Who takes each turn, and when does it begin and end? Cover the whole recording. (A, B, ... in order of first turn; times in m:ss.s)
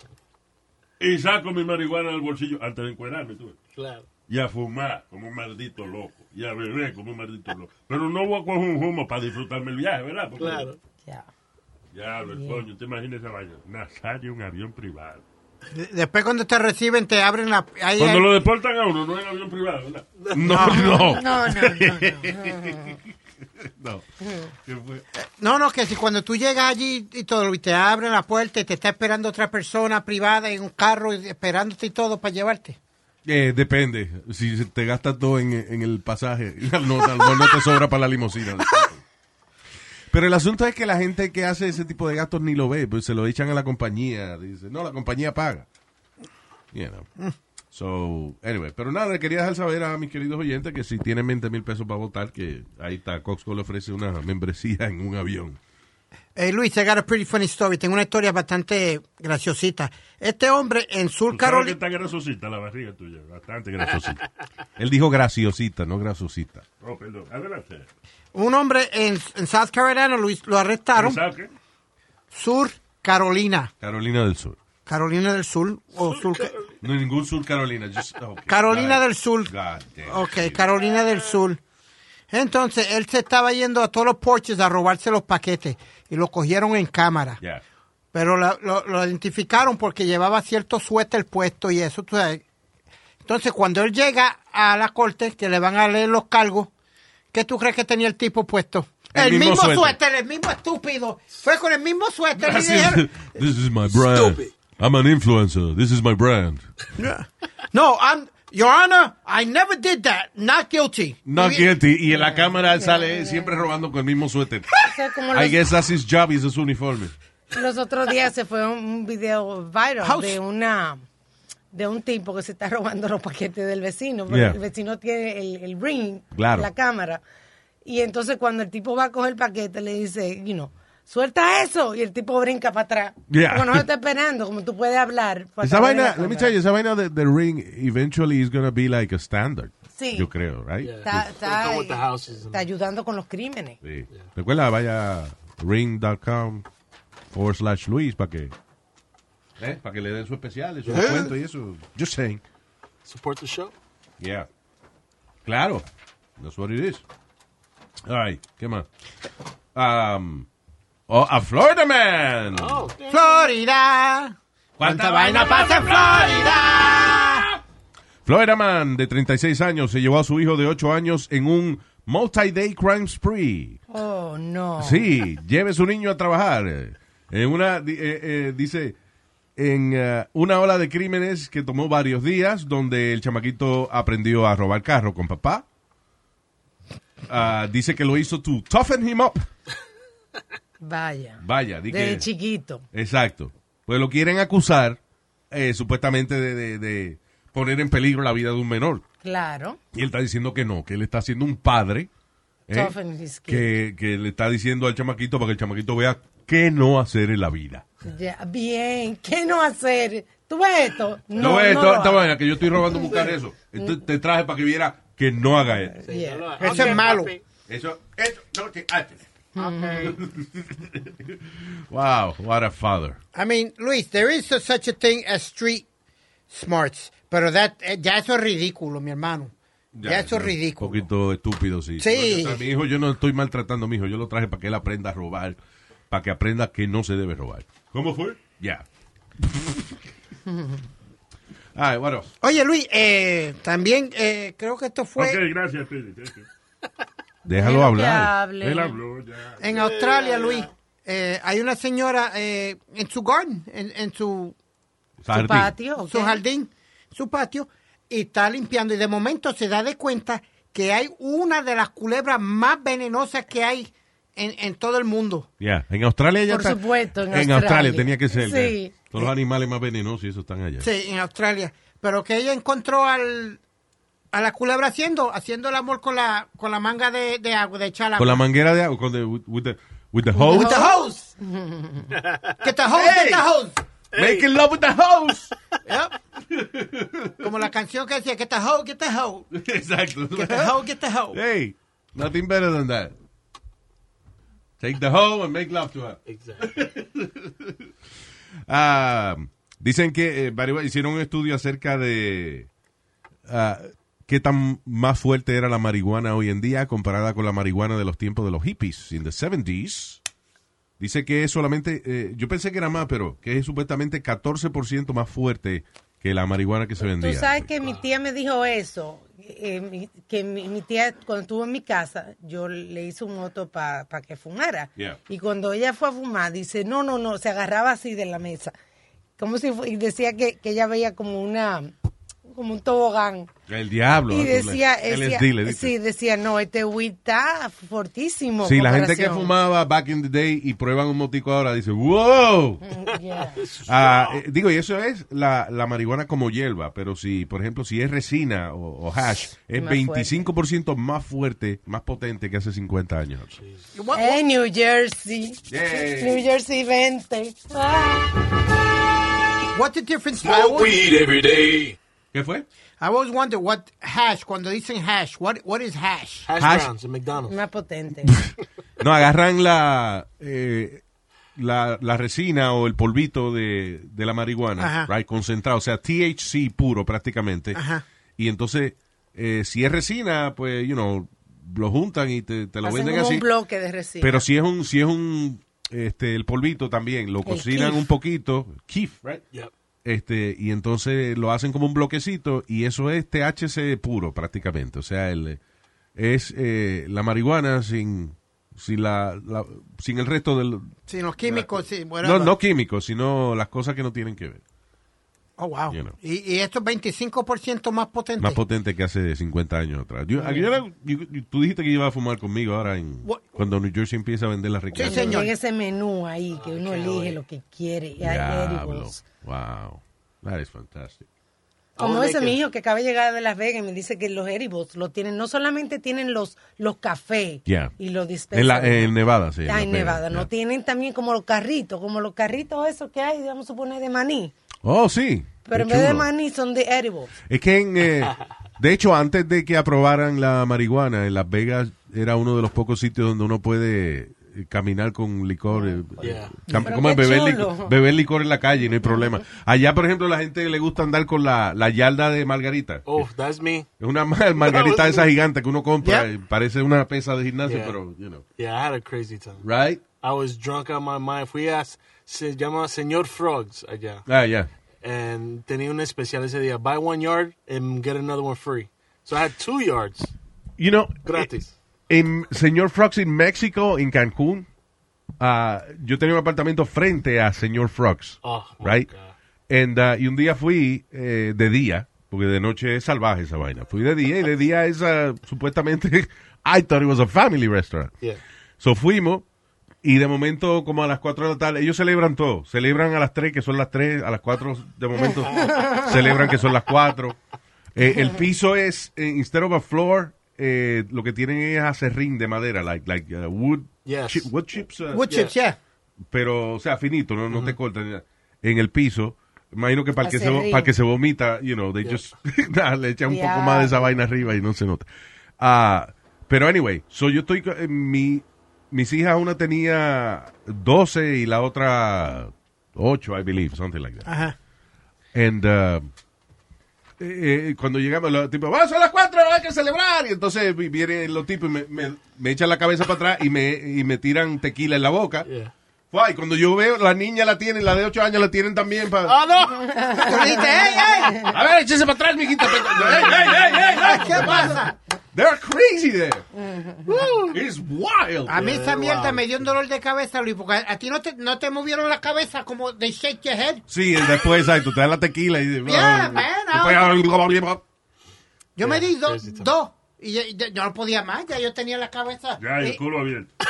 0:01.0-0:03.6 A
0:03.8-0:04.1 B
0:04.3-0:10.7 A
0:10.4-0:10.8 B
0:11.9-0:15.2 A
0:12.3-0:12.6 C
0:15.7-0:18.3 D
0:18.0-0:20.1 A
0:20.2-0:20.8 B
0:20.3-0:23.0 E
0:20.5-0:20.9 D
0:20.6-0:23.0 C
0:23.6-0:24.0 E
0:24.2-0:24.5 C
0:24.7-0:25.0 A
0:25.2-0:32.8 D
0:33.2-0:39.0 E
0:40.1-0:45.7 E
0:46.7-0:47.1 E
0:47.7-0:55.6 E
0:56.4-1:01.8 D
1:01.3-1:04.2 A
1:04.8-1:06.6 E
1:06.8-1:07.9 A
1:08.3-1:11.2 D
1:11.0-1:11.5 A
1:12.3-1:13.7 D
1:13.8-1:14.6 E
1:14.9-1:16.5 D
1:16.8-1:20.6 E
1:18.5-1:19.5 D
1:20.0-1:21.6 D
1:22.3-1:27.4 D
1:28.1-1:32.4 D
1:33.2-1:36.7 D
1:37.3-1:43.1 D
1:39.1-1:40.0 E
1:42.4-1:46.6 E
1:44.0-1:44.5 B
1:47.0-1:51.7 D
1:51.3-1:54.8 E
1:52.1-1:53.6 C
1:54.8-1:55.6 C
1:55.3-1:57.1 E
1:57.5-2:01.0 C
2:00.0-2:00.4 D
2:01.7-2:07.2 C
2:04.3-2:04.6 E
2:06.4-2:06.7 E
2:07.8-2:16.5 C
2:13.3-2:13.8 E
2:15.6-2:21.3 E
2:20.0-2:20.3 C
2:20.8-2:22.7 B
2:21.0-2:23.8 C
2:23.8-2:26.6 E
2:27.3-2:28.5 E
2:29.6-2:32.4 E
2:30.9-2:31.2 B
2:30.9-2:31.3 D
2:33.0-2:33.7 B
2:34.2-2:34.5 E
2:35.4-2:35.8 E
2:36.4-2:37.0 E
2:38.1-2:38.9 E
2:39.8-2:40.5 E
2:41.1-2:42.8 E
2:42.5-2:43.5 B
2:43.1-2:47.5 D
2:44.8-2:46.4 E
2:48.2-2:53.8 E
2:53.9-2:55.1 C
2:54.8-2:59.0 E
2:59.6-3:05.6 E
3:07.3-3:09.4 E
3:10.8-3:12.8 C
3:11.4-3:12.3 E
3:12.9-3:15.0 E
3:15.5-3:19.0 E
3:19.2-3:19.8 C
3:19.9-3:22.1 E
3:22.7-3:22.9 E
3:22.7-3:23.7 C
3:23.5-3:27.8 E
3:28.0-3:32.2 C
3:31.4-3:36.0 E
3:36.0-3:37.0 C
3:36.0-3:37.4 B
3:36.6-3:37.4 D
3:37.7-3:39.2 E
3:39.6-3:40.2 C
3:39.6-3:40.2 B
3:40.0-3:43.2 E
3:43.3-3:45.9 D
3:46.5-3:51.0 D
3:49.9-3:55.6 E
3:52.0-3:52.6 D
3:56.1-3:58.8 E
3:59.4-4:00.0 E
4:01.8-4:02.3 E
4:02.4-4:05.4 D
4:05.2-4:06.5 A
4:07.4-4:08.3 E
4:07.5-4:09.0 C
4:08.6-4:09.8 A
4:09.6-4:14.6 D
4:09.8-4:10.7 B
4:15.2-4:15.7 E
4:15.3-4:16.4 C
4:16.0-4:25.5 D
4:25.6-4:26.8 E
4:26.5-4:29.0 C
4:27.3-4:30.9 E
4:30.8-4:33.6 D
4:34.3-4:38.4 D
4:38.2-4:40.9 E
4:40.4-4:41.3 D
4:40.4-4:42.2 C
4:42.6-4:43.8 D
4:42.9-4:43.5 E
4:44.1-4:44.4 B
4:44.1-4:45.5 E
4:45.9-4:46.1 D
4:46.5-4:47.5 E
4:47.4-4:49.5 D
4:49.5-4:50.8 E
4:50.3-4:51.4 D
4:51.3-4:53.1 E
4:54.8-4:57.8 E
4:56.3-4:56.8 B
4:58.7-5:02.7 E
5:03.5-5:10.2 E
5:11.0-5:17.6 E
5:17.0-5:28.7 C
5:29.4-5:31.9 C
5:32.5-5:33.5 C
5:33.7-5:35.9 E
5:34.3-5:39.6 C
5:38.6-5:42.8 E
5:42.8-5:43.6 C
5:43.5-5:44.4 B
5:43.9-5:53.6 E
5:49.8-5:50.5 C
5:53.6-5:53.8 B
5:54.0-5:54.4 D
5:54.1-5:58.3 C
5:55.7-5:56.4 E
5:59.7-6:01.0 D
6:00.4-6:02.0 B
6:02.3-6:02.6 E
6:03.0-6:06.5 D
6:06.5-6:07.6 B
6:06.6-6:06.9 E
6:07.5-6:08.4 C
6:08.3-6:11.0 E
6:11.6-6:17.8 E
6:14.8-6:15.1 D
6:17.7-6:18.0 D
6:18.4-6:23.5 E
6:22.8-6:24.4 C
6:24.2-6:29.4 E
6:27.4-6:28.1 C
6:30.0-6:35.6 E
6:36.2-6:41.0 E
6:41.1-6:42.5 D
6:41.5-6:44.6 E
6:45.6-6:48.6 D
6:45.9-6:46.2 E
6:48.4-6:55.5 E
6:53.2-6:53.6 D
6:54.9-6:55.5 D
6:55.0-6:59.2 C
6:56.5-6:57.4 B
6:58.2-7:01.3 E
7:02.0-7:02.6 B
7:02.0-7:14.5 C
7:07.7-7:07.9 E
7:08.5-7:10.5 E
7:14.8-7:16.3 E
7:15.7-7:17.3 C
7:17.5-7:33.3 E
7:26.2-7:26.5 B
7:26.7-7:28.0 C
7:33.1-7:33.9 B
7:34.0-7:38.4 E
7:34.6-7:35.3 B
7:36.0-7:36.3 D
7:37.6-7:38.0 B
7:38.6-7:39.6 B
7:39.6-7:40.0 E
7:40.2-7:44.2 B
7:44.3-7:44.7 E
7:45.0-7:50.3 B
7:50.8-7:51.5 E
7:51.3-7:51.7 B
7:52.1-7:54.7 E
7:55.4-7:59.1 E
7:58.4-7:59.4 B
7:59.7-8:08.1 E
8:08.8-8:09.4 E
8:10.0-8:17.4 E
8:15.8-8:16.0 C
8:18.0-8:25.3 E
8:24.0-8:24.5 B
8:25.1-8:25.8 D
8:26.3-8:35.1 E
8:27.5-8:27.8 B
8:30.2-8:30.9 C
8:33.3-8:34.2 C
8:35.6-8:44.3 E
8:44.2-8:44.6 D
8:45.3-8:46.1 E
8:47.2-8:55.5 E
8:55.5-8:55.7 B
8:56.1-8:59.4 E
8:59.2-9:00.0 B
8:59.8-9:01.5 C
9:00.2-9:01.5 D
9:01.4-9:06.5 E
9:03.9-9:05.0 D
9:06.6-9:07.1 C
9:07.1-9:07.6 B
9:07.5-9:08.7 E
9:08.5-9:13.8 D
9:08.5-9:09.5 B
9:13.9-9:17.8 E
9:15.8-9:17.2 D
9:18.8-9:23.0 D
9:18.8-9:19.7 B
9:22.6-9:23.5 A